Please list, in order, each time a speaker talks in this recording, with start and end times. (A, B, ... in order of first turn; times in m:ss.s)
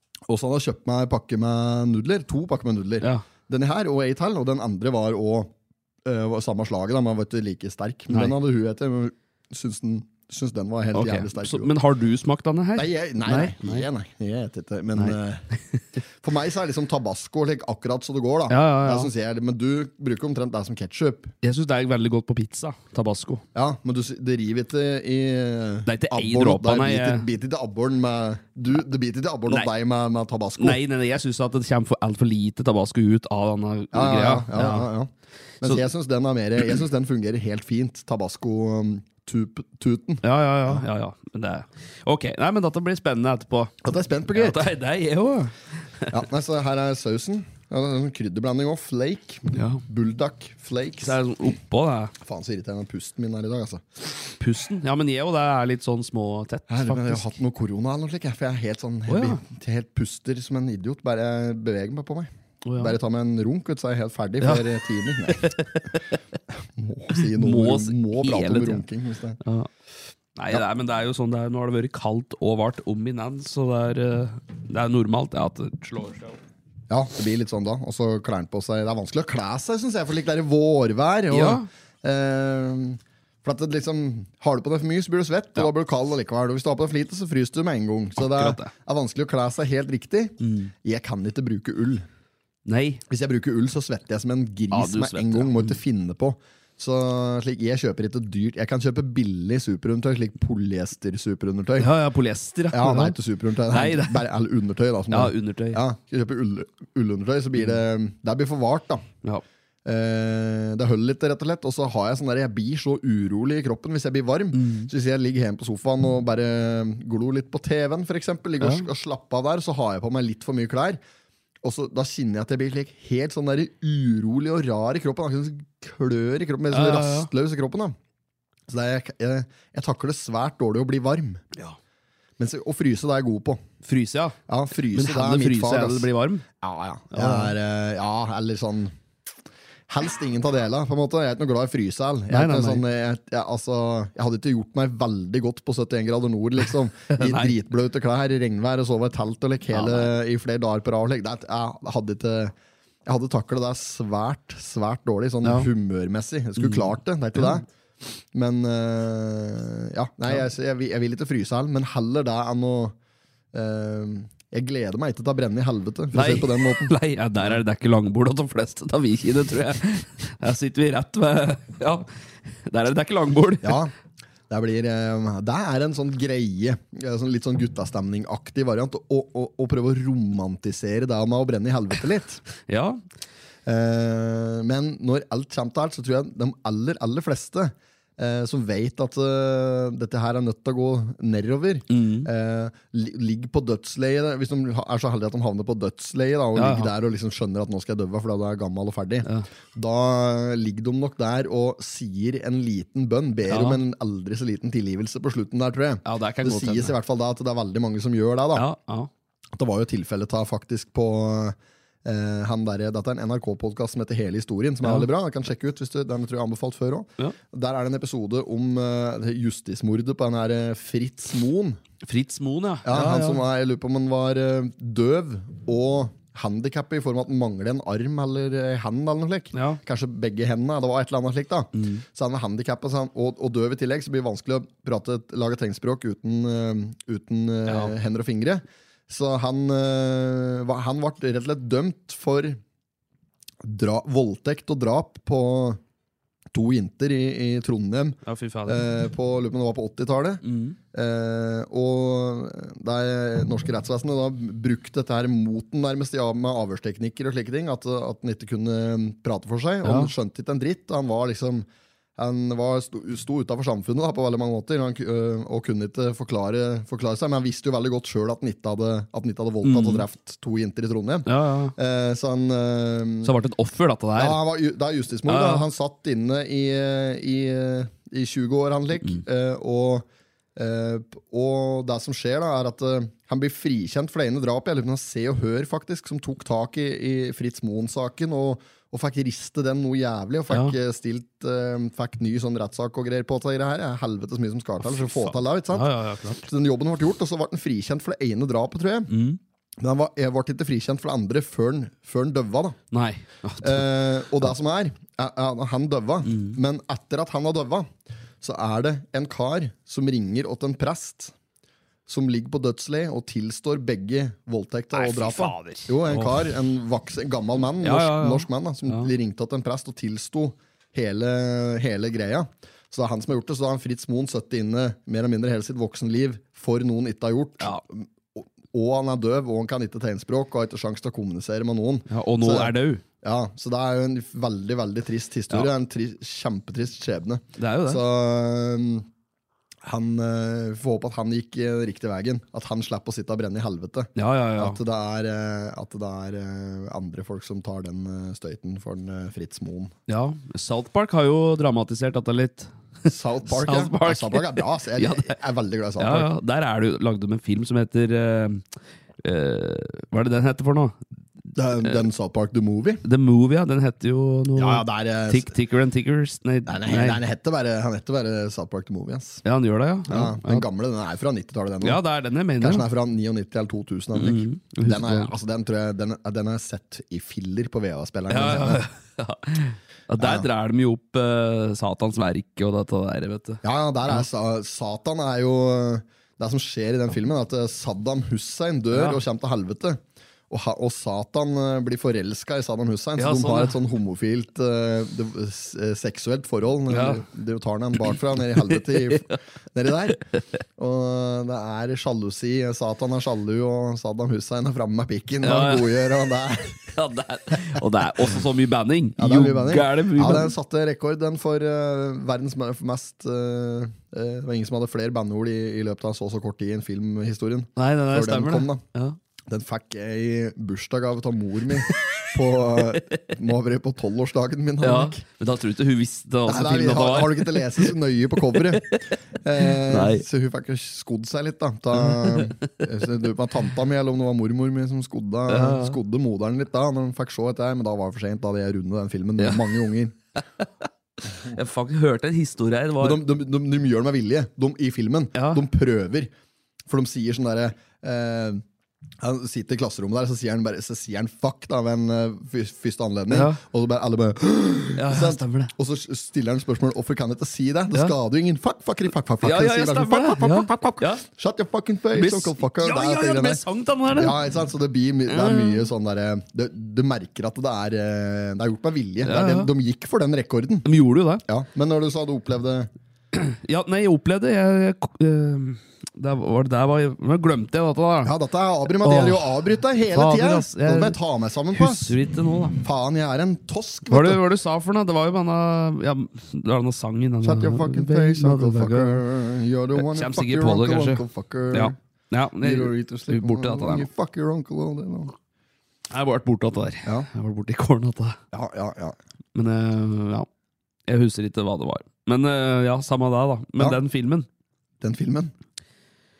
0:00.3-0:05.5 A
0:06.0-0:11.7 A
0:10.9-0:13.8 B
0:12.8-0:15.4 A
0:16.2-0:21.3 A
0:18.5-0:19.1 B
0:21.4-0:23.4 B
0:23.5-0:30.8 A
0:25.8-0:27.2 B
0:30.6-0:34.9 B
0:33.9-0:40.8 A
0:40.2-0:43.7 B
0:43.8-0:44.6 A
0:44.3-0:46.2 B
0:46.1-0:51.2 A
0:49.5-0:49.8 B
0:51.0-0:52.1 B
0:52.2-0:53.8 A
0:54.4-0:57.4 B
0:56.7-1:05.6 A
0:59.1-0:59.4 B
1:02.6-1:03.0 B
1:04.4-1:04.6 B
1:05.3-1:06.2 B
1:06.5-1:09.4 A
1:07.1-1:08.8 B
1:09.4-1:09.7 B
1:10.3-1:16.4 B
1:16.9-1:32.0 A
1:21.3-1:21.7 B
1:28.2-1:28.7 B
1:30.4-1:30.7 B
1:32.6-1:33.0 B
1:33.1-1:41.9 A
1:34.7-1:35.8 B
1:41.8-1:43.2 B
1:42.7-1:49.1 A
1:43.7-1:44.3 B
1:45.1-1:45.8 B
1:49.8-2:01.0 A
1:54.5-1:54.9 B
2:01.6-2:08.0 A
2:06.7-2:07.3 B
2:08.7-2:11.4 A
2:12.4-2:13.6 A
2:13.8-2:14.4 B
2:14.5-2:16.1 A
2:14.9-2:16.4 B
2:16.6-2:18.9 A
2:17.1-2:17.5 B
2:19.9-2:32.5 A
2:22.3-2:22.8 B
2:27.1-2:27.5 B
2:29.7-2:30.1 B
2:33.0-2:37.6 A
2:35.4-2:35.7 B
2:36.6-2:36.9 B
2:38.3-2:43.0 A
2:43.5-2:46.9 A
2:46.1-2:52.1 B
2:52.6-2:53.8 B
2:53.6-2:53.9 A
2:54.5-3:02.4 A
3:02.6-3:03.0 B
3:03.6-3:28.7 A
3:11.9-3:12.3 B
3:16.6-3:16.9 B
3:23.5-3:23.8 B
3:26.0-3:26.9 B
3:28.5-3:29.1 B
3:29.5-3:41.8 A
3:34.8-3:35.1 B
3:42.0-3:43.4 B
3:42.8-4:02.6 A
3:49.5-3:49.8 B
3:51.8-3:52.0 B
3:57.7-3:57.9 B
4:03.6-4:05.8 A
4:06.5-4:33.3 A
4:08.2-4:08.8 B
4:10.4-4:10.8 B
4:19.8-4:20.1 B
4:29.6-4:30.0 B
4:31.2-4:31.7 B
4:33.2-4:34.4 B
4:34.2-4:55.9 A
4:35.3-4:35.6 B
4:50.5-4:50.8 B
4:54.8-4:56.4 B
4:56.4-4:59.1 A
4:59.1-4:59.4 B
4:59.8-5:02.8 A
5:02.9-5:03.9 B
5:03.6-5:11.3 A
5:06.2-5:06.6 B
5:12.1-5:39.1 A
5:14.9-5:16.5 B
5:17.8-5:19.1 B
5:32.1-5:33.0 B
5:37.6-5:38.0 B
5:39.8-5:49.9 A
5:44.2-5:44.8 B
5:50.1-5:52.7 B
5:53.1-5:56.3 A
5:53.4-5:55.4 B
5:56.0-5:58.7 B
5:59.2-6:01.0 B
6:01.5-6:03.0 A
6:03.0-6:07.2 B
6:04.6-6:05.5 A
6:06.6-6:09.4 A
6:09.4-6:10.6 B
6:10.1-6:12.0 A
6:11.8-6:12.9 B
6:12.6-6:18.8 A
6:14.1-6:15.3 B
6:18.3-6:24.2 B
6:20.2-6:20.5 A
6:23.6-6:40.2 A
6:28.9-6:29.2 B
6:33.2-6:33.8 B
6:36.9-6:37.2 B
6:39.1-6:39.4 B
6:40.8-6:46.9 A
6:45.4-6:46.0 B
6:46.9-6:50.5 B
6:49.2-6:58.8 A
6:57.8-6:59.2 B
6:59.5-7:05.2 A
7:04.8-7:07.9 B
7:06.5-7:20.1 A
7:08.5-7:10.2 B
7:12.0-7:12.7 B
7:15.5-7:16.0 B
7:19.4-7:19.7 B
7:21.4-7:23.2 B
7:23.0-7:26.3 A
7:25.3-7:25.6 B
7:26.9-7:28.6 A
7:29.2-7:43.6 A
7:33.3-7:33.6 B
7:34.9-7:35.7 B
7:39.4-7:41.2 B
7:42.1-7:44.4 B
7:44.1-7:50.9 A
7:45.3-7:45.8 B
7:49.2-7:49.7 B
7:50.8-7:51.4 B
7:51.4-7:52.9 A
7:53.3-7:58.3 B
7:58.2-8:02.1 A
7:59.0-7:59.4 B
8:00.1-8:01.2 B
8:01.7-8:02.8 B
8:02.8-8:04.4 A
8:04.1-8:09.2 B
8:07.4-8:11.9 A
8:10.0-8:14.1 B
8:12.6-8:15.3 A
8:16.1-8:18.4 B
8:18.5-8:19.2 A
8:19.5-8:20.5 B
8:21.1-8:24.5 B
8:25.0-8:25.5 A